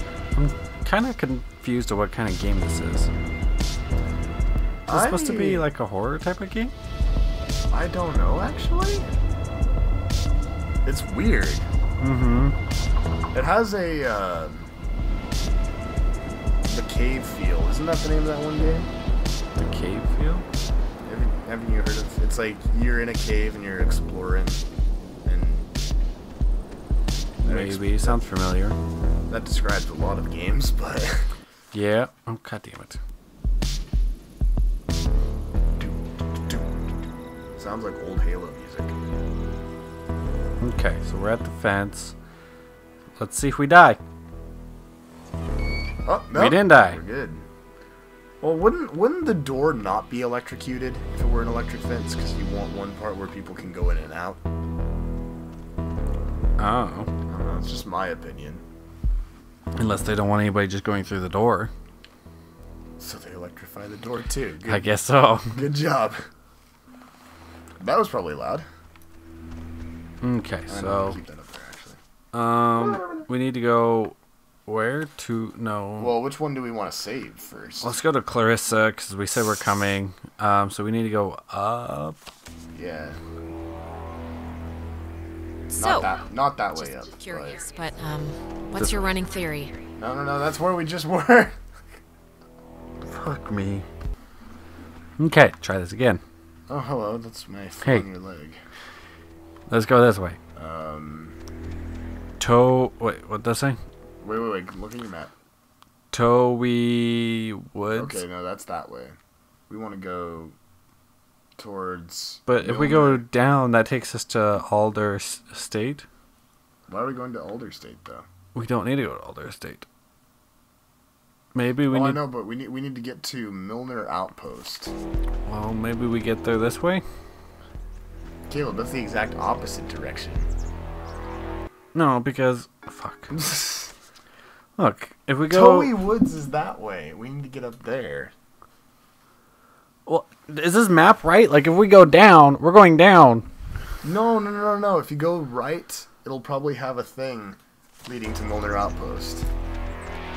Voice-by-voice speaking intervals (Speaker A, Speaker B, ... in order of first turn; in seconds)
Speaker A: 0.3-3.1, 4.9-6.7, 12.0-12.6, 19.6-20.4, 27.4-28.8, 31.7-33.0, 40.6-42.1, 43.2-44.0, 46.3-47.0, 56.6-57.1, 59.8-61.7, 64.6-65.6, 70.2-71.2, 72.3-74.1, 74.7-76.1, 77.8-82.2, 93.0-93.8, 95.2-96.2, 99.7-100.4, 102.4-103.8, 106.1-108.2, 112.5-116.0, 118.5-119.8, 121.5-122.2, 125.5-127.0, 131.9-133.3, 134.8-135.9, 140.1-143.4
Speaker B: 4.9-5.7, 7.7-9.1, 10.8-11.7, 13.3-14.7, 16.7-18.9, 21.0-24.6, 25.2-25.7, 27.4-28.2, 29.3-31.3, 35.8-36.9, 37.6-39.0, 46.0-47.4, 48.4-54.4, 57.3-58.6, 63.0-64.9, 65.5-66.2, 67.8-68.6, 70.7-72.0, 72.8-73.2, 76.0-78.0, 82.7-83.2, 85.8-87.6, 88.8-89.2, 90.0-91.6, 96.7-98.6, 100.5-101.4, 104.2-105.3, 107.9-109.2, 109.7-110.5, 111.6-113.2, 116.9-118.2, 121.9-124.9, 128.5-130.5, 133.3-133.9, 135.5-138.3, 144.0-149.5
Speaker C: 85.7-86.2, 86.8-89.7